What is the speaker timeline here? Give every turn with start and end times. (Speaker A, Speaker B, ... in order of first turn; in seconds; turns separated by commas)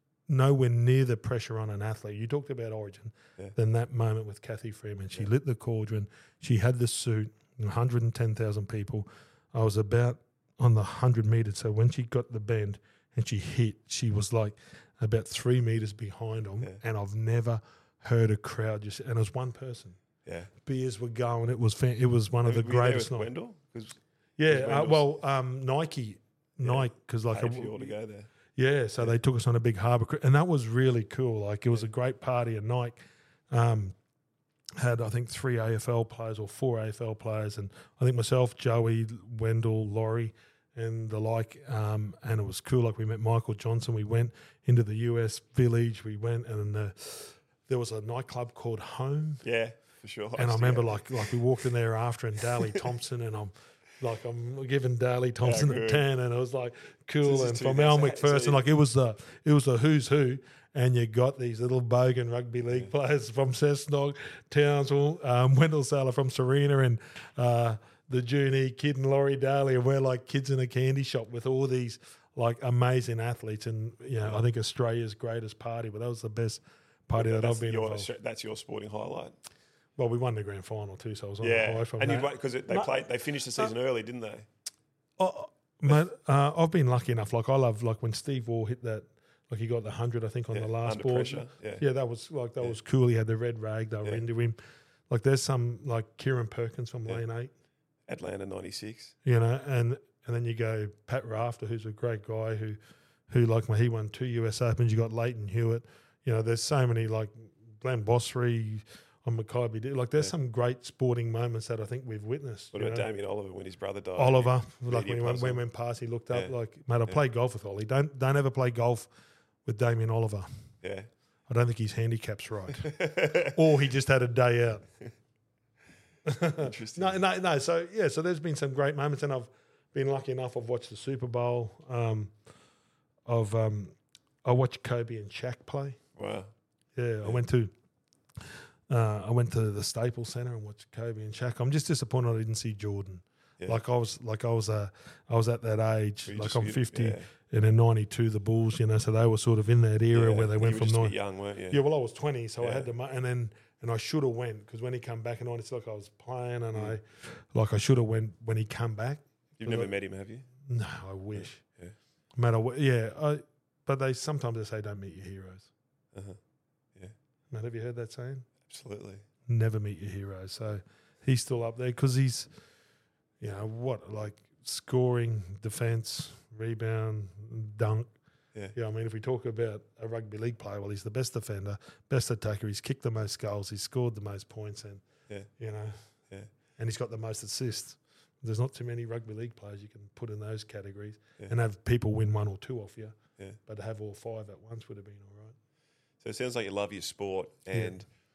Speaker A: 0.3-20.0, Speaker B: 20.2-20.5, Speaker A: 20.6-23.3, Speaker B: 22.4-25.0, Speaker A: 24.4-27.9, Speaker B: 26.6-28.3, Speaker A: 28.6-33.0, Speaker A: 33.5-33.9, Speaker A: 34.8-49.4, Speaker B: 49.4-51.3, Speaker A: 50.4-78.1, Speaker B: 55.4-56.0, Speaker B: 57.2-58.6, Speaker B: 77.2-79.3, Speaker A: 80.0-83.0, Speaker B: 81.4-84.5, Speaker A: 85.2-94.6, Speaker B: 90.5-91.8, Speaker A: 95.1-97.5, Speaker B: 98.1-99.1, Speaker A: 99.2-102.8, Speaker A: 103.3-113.1, Speaker B: 112.7-115.6, Speaker A: 114.2-119.1, Speaker B: 116.3-116.5, Speaker A: 119.6-120.5, Speaker B: 120.8-121.1, Speaker A: 121.5-124.8, Speaker B: 122.8-123.5, Speaker A: 126.2-132.3, Speaker B: 126.5-127.2, Speaker A: 133.2-133.9, Speaker A: 134.4-136.0, Speaker B: 136.2-136.5, Speaker A: 136.9-137.7, Speaker A: 138.4-151.2, Speaker B: 146.3-147.3, Speaker B: 150.1-151.8, Speaker A: 151.7-159.9, Speaker B: 152.6-152.9, Speaker B: 159.6-160.4, Speaker A: 160.7-161.6, Speaker B: 161.3-161.9, Speaker A: 162.3-165.7, Speaker A: 167.5-168.5, Speaker B: 168.6-169.2, Speaker A: 169.5-172.5, Speaker A: 173.4-178.1, Speaker A: 178.7-185.0, Speaker A: 185.6-186.0, Speaker A: 186.8-193.1, Speaker A: 193.7-195.5, Speaker B: 196.2-198.1